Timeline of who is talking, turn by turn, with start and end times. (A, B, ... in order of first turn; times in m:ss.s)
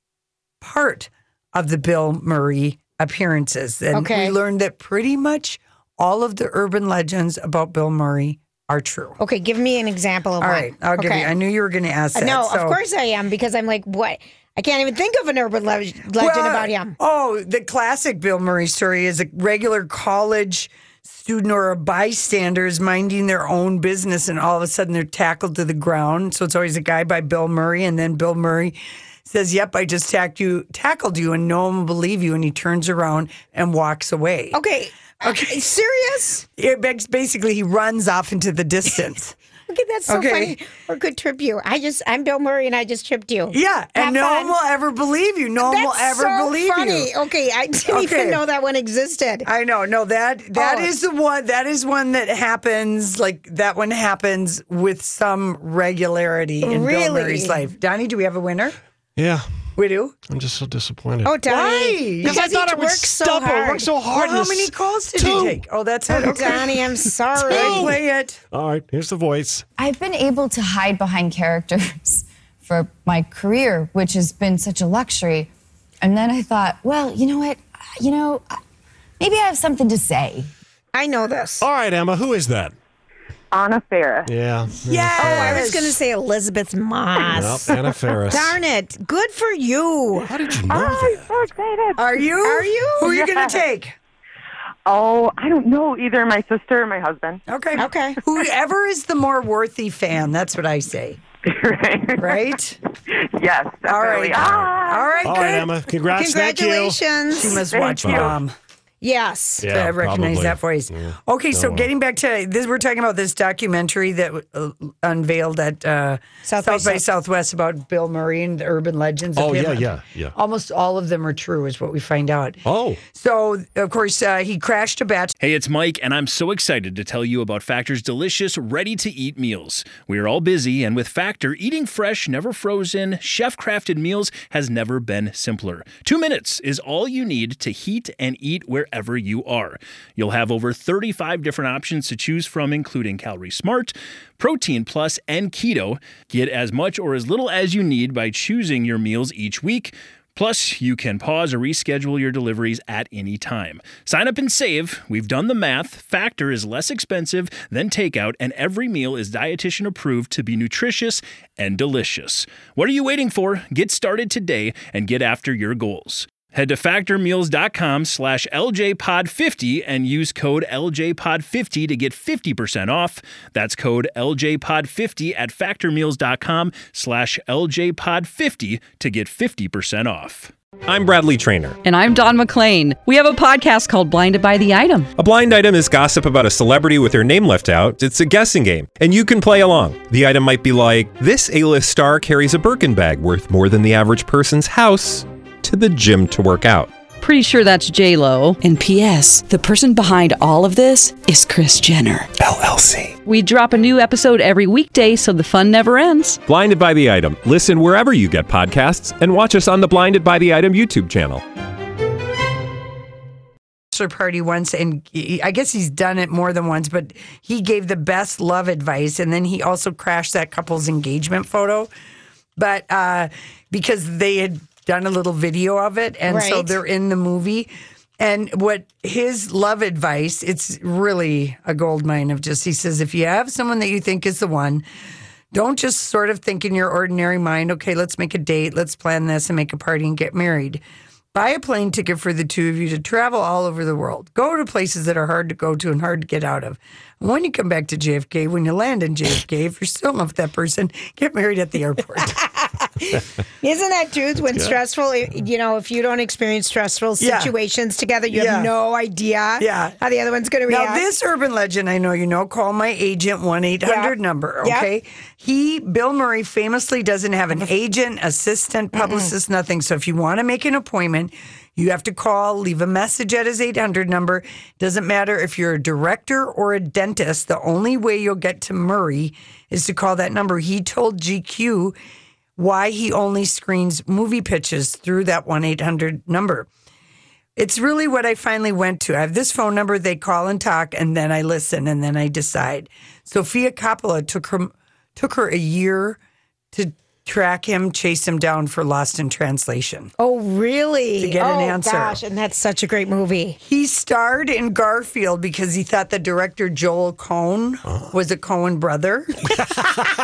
0:00.6-0:09.2 A
0:03.9-0:04.4 B
0:09.2-0:11.3 B
0:10.4-0:12.8 A
0:12.1-0:17.0 B
0:16.2-0:34.6 A
0:34.5-0:36.4 B
0:35.2-0:35.6 A
0:36.6-0:39.3 A
0:39.7-0:44.5 B
0:40.1-0:40.5 A
0:43.5-0:47.1 A
0:45.6-0:49.5 B
0:47.9-0:48.4 A
0:49.4-0:58.8 A
0:50.5-0:50.9 B
0:56.6-0:57.6 B
0:59.2-0:59.4 C
0:59.8-1:00.2 A
1:00.3-1:01.4 C
1:01.2-1:03.9 B
1:01.5-1:02.4 A
1:02.2-1:05.6 C
1:04.1-1:06.7 A
1:06.1-1:07.9 B
1:06.1-1:06.7 C
1:07.4-1:08.0 C
1:07.4-1:08.4 A
1:08.5-1:09.6 C
1:09.8-1:15.5 D
1:16.0-1:18.4 D
1:19.2-1:20.5 D
1:20.9-1:21.6 B
1:21.6-1:22.7 C
1:23.5-1:24.3 E
1:24.2-1:25.7 C
1:24.8-1:25.9 A
1:25.2-1:27.8 B
1:27.3-1:28.6 C
1:28.3-1:30.3 B
1:30.2-1:31.3 C
1:30.7-1:32.1 E
1:32.0-1:33.9 A
1:32.4-1:33.1 B
1:33.1-1:33.5 E
1:34.9-1:37.4 E
1:37.5-1:41.2 A
1:37.8-1:38.2 B
1:41.5-1:42.4 E
1:42.2-1:42.8 A
1:43.4-1:45.2 E
1:43.9-1:45.7 A
1:44.4-1:47.0 C
1:46.1-1:47.6 B
1:47.3-1:48.5 A
1:47.7-1:48.3 E
1:48.0-1:48.4 C
1:49.0-1:49.7 B
1:49.6-1:51.9 C
1:49.7-2:05.3 A
1:56.4-1:57.0 B
1:59.4-2:00.3 C
2:02.6-2:03.0 C
2:05.4-3:00.5 F
3:00.8-3:01.8 G
3:01.8-3:05.1 H
3:05.2-3:16.9 G
3:17.2-3:22.3 H
3:23.2-3:26.4 H
3:26.4-3:31.4 G
3:33.9-3:41.9 A
3:42.6-3:54.8 A
3:46.3-3:46.8 B
3:55.5-4:00.8 A
4:01.3-4:12.4 A
4:13.0-4:21.0 B
4:17.2-4:17.5 A
4:18.3-4:18.7 A
4:19.6-4:19.9 A
4:20.7-4:42.0 A
4:23.8-4:24.9 B
4:28.9-4:29.3 B
4:42.6-4:46.7 A
4:47.6-4:56.2 A
4:56.7-5:00.1 A
5:00.2-5:03.6 B
5:01.2-5:02.2 A
5:03.6-5:09.4 A